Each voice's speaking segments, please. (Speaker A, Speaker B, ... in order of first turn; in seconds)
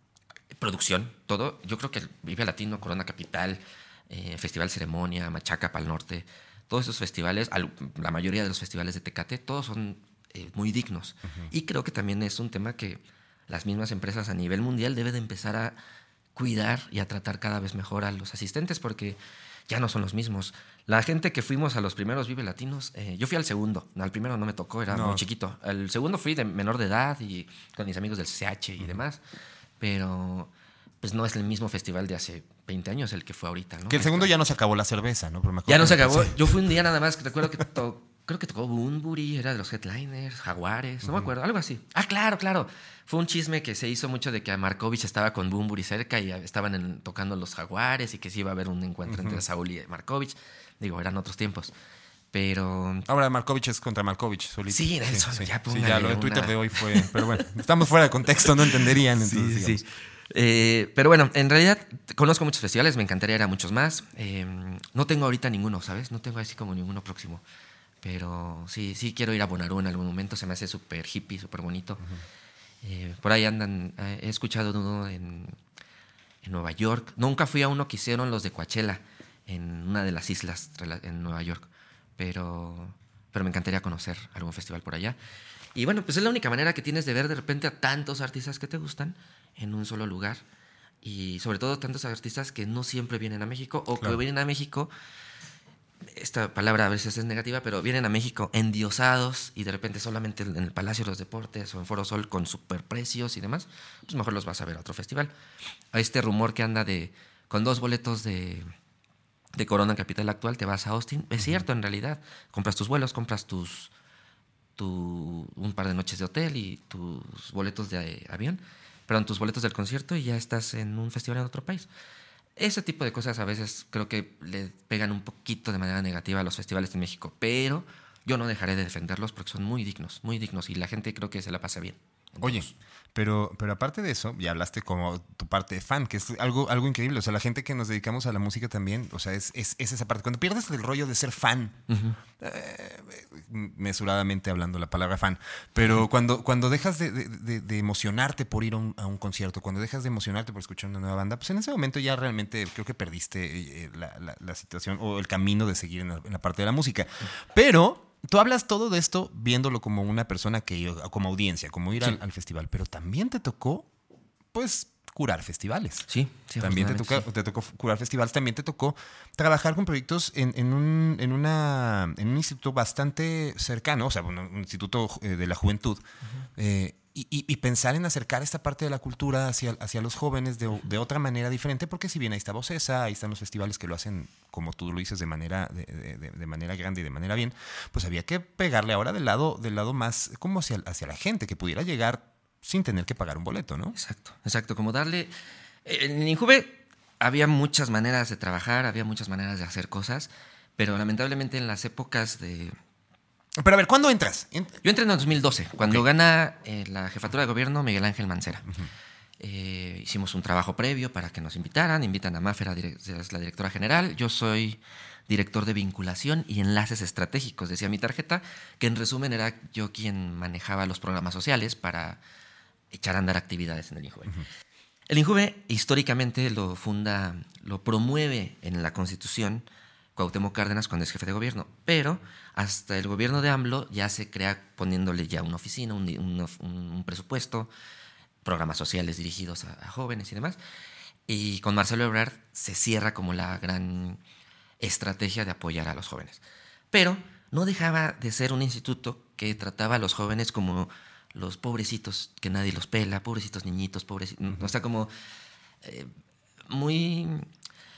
Speaker A: 0.6-15.8, 16.3-29.2, 29.8-30.5, 31.0-34.3, 35.7-51.7, 52.3-53.1, 54.7-57.2, 58.4-67.4, 68.0-72.0, 72.8-75.6, 76.4-85.2, 85.7-90.4, 91.0-94.9, 96.1-105.3, 105.9-108.7, 109.5-113.9, 114.8-121.9, 122.6-132.7, 141.9-142.2, 166.1-167.2, 193.9-195.3, 195.8-202.7, 204.8-208.7, 209.4-222.2, 222.9-224.4, 225.1-237.7, 238.4-240.6, 241.3-244.2, 244.8-255.1, 255.8-256.1, 256.7-257.5
Speaker B: 24.9-25.2, 33.9-36.6, 41.0-41.3, 49.1-49.4, 53.1-59.8, 132.4-141.8, 142.4-163.9, 164.5-166.1, 166.6-176.0, 176.6-193.9, 203.6-204.8